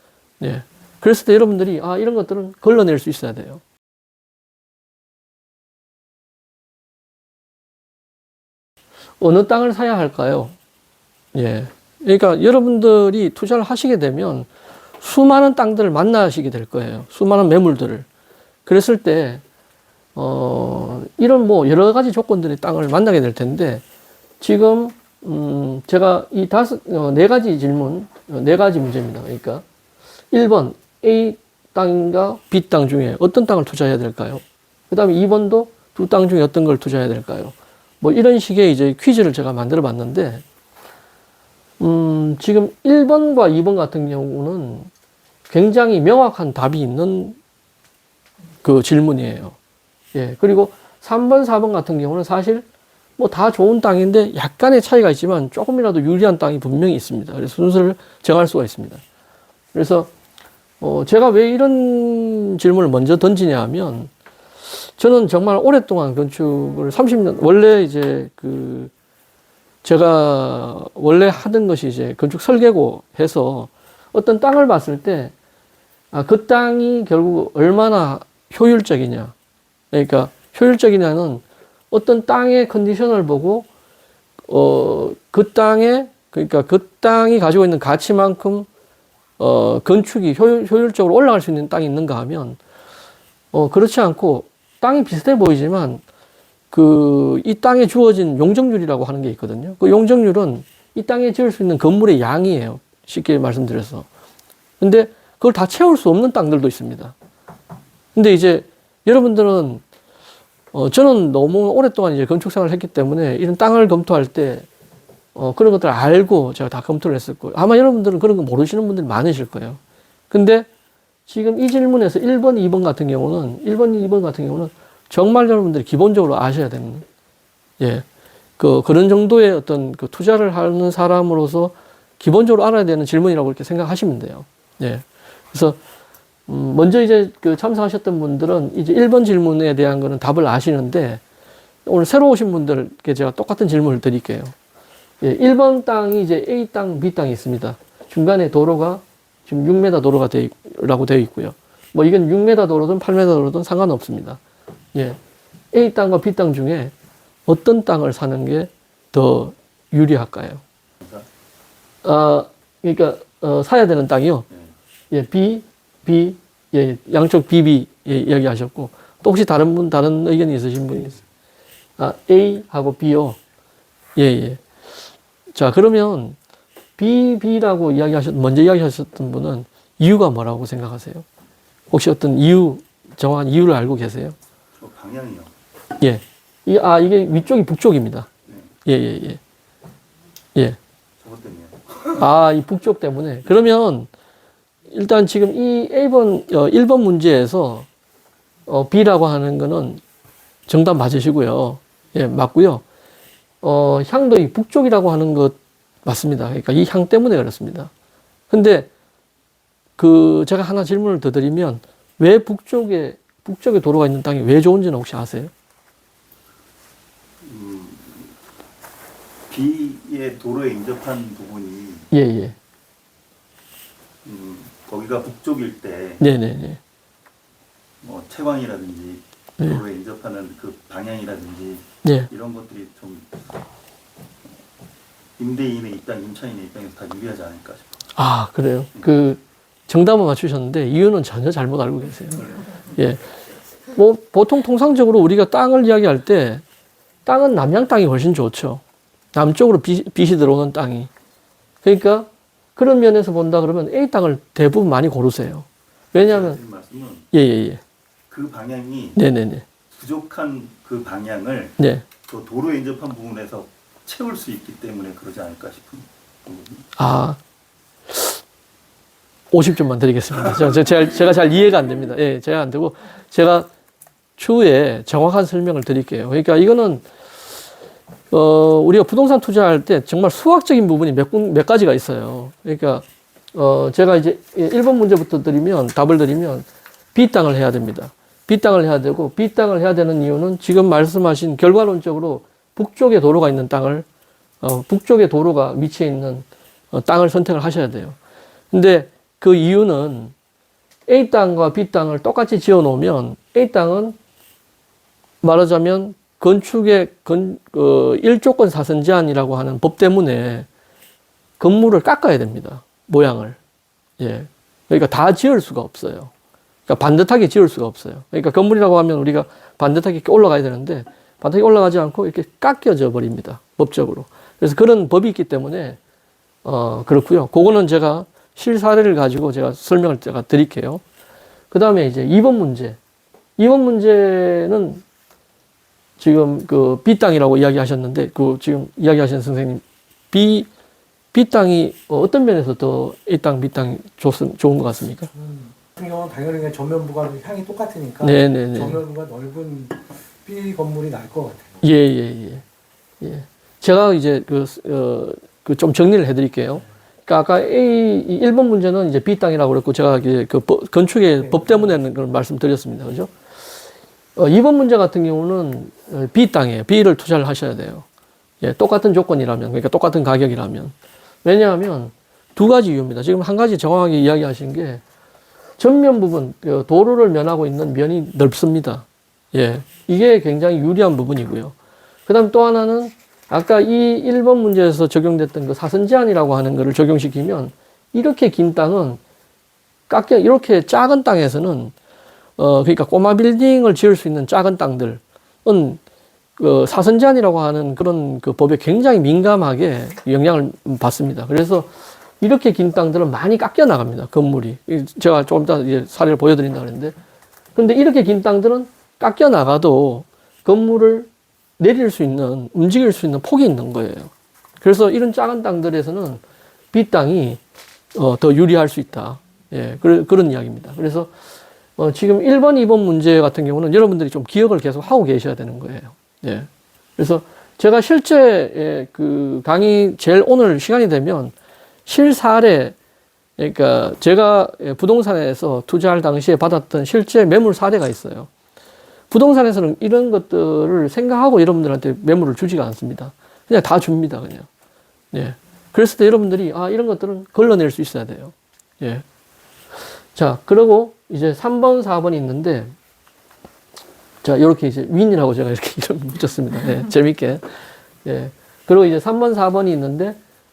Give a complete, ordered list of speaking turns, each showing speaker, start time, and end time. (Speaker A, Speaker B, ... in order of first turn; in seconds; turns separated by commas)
Speaker A: 0.4-3.6, Speaker A: 9.2-10.6, Speaker A: 11.3-14.5, Speaker A: 15.0-18.1, Speaker A: 18.7-19.4, Speaker A: 20.2-23.8, Speaker A: 24.4-29.6, Speaker A: 30.3-40.4, Speaker A: 41.8-44.9, Speaker A: 45.5-47.4, Speaker A: 48.6-49.6, Speaker A: 50.1-52.6, Speaker A: 53.2-59.0, Speaker A: 59.7-60.1, Speaker A: 60.8-64.1, Speaker A: 64.7-68.9, Speaker A: 69.8-75.3, Speaker A: 76.1-79.3, Speaker A: 79.9-83.7, Speaker A: 84.5-88.7, Speaker A: 89.4-92.6, Speaker A: 93.5-96.0, Speaker A: 96.7-104.1, Speaker A: 104.8-107.1, Speaker A: 108.2-109.8, Speaker A: 110.7-114.7, Speaker A: 115.3-119.8, Speaker A: 120.3-120.7, Speaker A: 121.3-127.0, Speaker A: 127.8-128.1, Speaker A: 128.6-135.8, Speaker A: 136.5-141.2, Speaker A: 141.9-144.5, Speaker A: 145.2-154.4, Speaker A: 155.7-156.9, Speaker A: 157.5-160.6, Speaker A: 162.0-164.5, Speaker A: 165.1-171.2, Speaker A: 172.0-173.4, Speaker A: 174.2-174.6, Speaker A: 175.5-176.4, Speaker A: 177.0-181.2, Speaker A: 181.9-184.4, Speaker B: 184.8-185.5, Speaker A: 186.0-188.3, Speaker B: 188.5-188.7, Speaker A: 188.8-189.4, Speaker B: 191.2-192.2, Speaker A: 192.2-194.1, Speaker A: 194.9-197.9, Speaker A: 198.7-200.0, Speaker A: 200.7-202.8, Speaker A: 203.6-207.9, Speaker A: 208.5-208.9, Speaker A: 210.0-215.5, Speaker B: 217.4-218.4, Speaker B: 219.5-222.1, Speaker A: 222.1-222.6, Speaker B: 224.2-226.2, Speaker A: 226.2-226.8, Speaker B: 228.0-233.4, Speaker A: 232.0-232.3, Speaker B: 235.4-238.0, Speaker A: 238.2-243.2, Speaker A: 243.9-246.6, Speaker A: 247.2-248.8, Speaker A: 249.3-251.1, Speaker A: 251.8-256.6, Speaker B: 256.1-257.3, Speaker A: 257.3-257.8, Speaker B: 258.3-259.2, Speaker A: 259.2-259.7, Speaker B: 259.9-261.8, Speaker A: 261.8-262.1, Speaker B: 262.3-266.9, Speaker A: 267.0-267.4, Speaker A: 268.1-268.4, Speaker A: 269.5-273.7, Speaker A: 274.4-277.1, Speaker A: 278.3-294.1, Speaker A: 294.6-298.2, Speaker A: 298.7-300.3, Speaker A: 301.1-304.2, Speaker A: 305.4-310.7, Speaker A: 311.6-313.6, Speaker A: 314.2-316.3, Speaker A: 316.9-326.0, Speaker A: 326.6-331.0, Speaker A: 331.7-333.0, Speaker A: 333.6-335.0, Speaker A: 336.2-340.7, Speaker A: 341.3-345.3, Speaker C: 345.4-351.8, Speaker A: 348.2-349.0, Speaker A: 351.8-352.6, Speaker A: 353.2-363.3, Speaker A: 364.4-368.1, Speaker A: 368.6-375.0, Speaker A: 375.8-381.8, Speaker A: 382.3-389.2, Speaker A: 390.1-391.9, Speaker A: 392.6-396.0, Speaker A: 396.6-407.1, Speaker A: 407.8-417.6, Speaker A: 418.1-421.3, Speaker A: 422.0-431.5, Speaker A: 432.1-432.9, Speaker A: 433.6-438.5, Speaker A: 439.3-444.7, Speaker A: 445.3-449.2, Speaker A: 450.4-452.9, Speaker A: 454.4-457.6, Speaker A: 458.2-460.4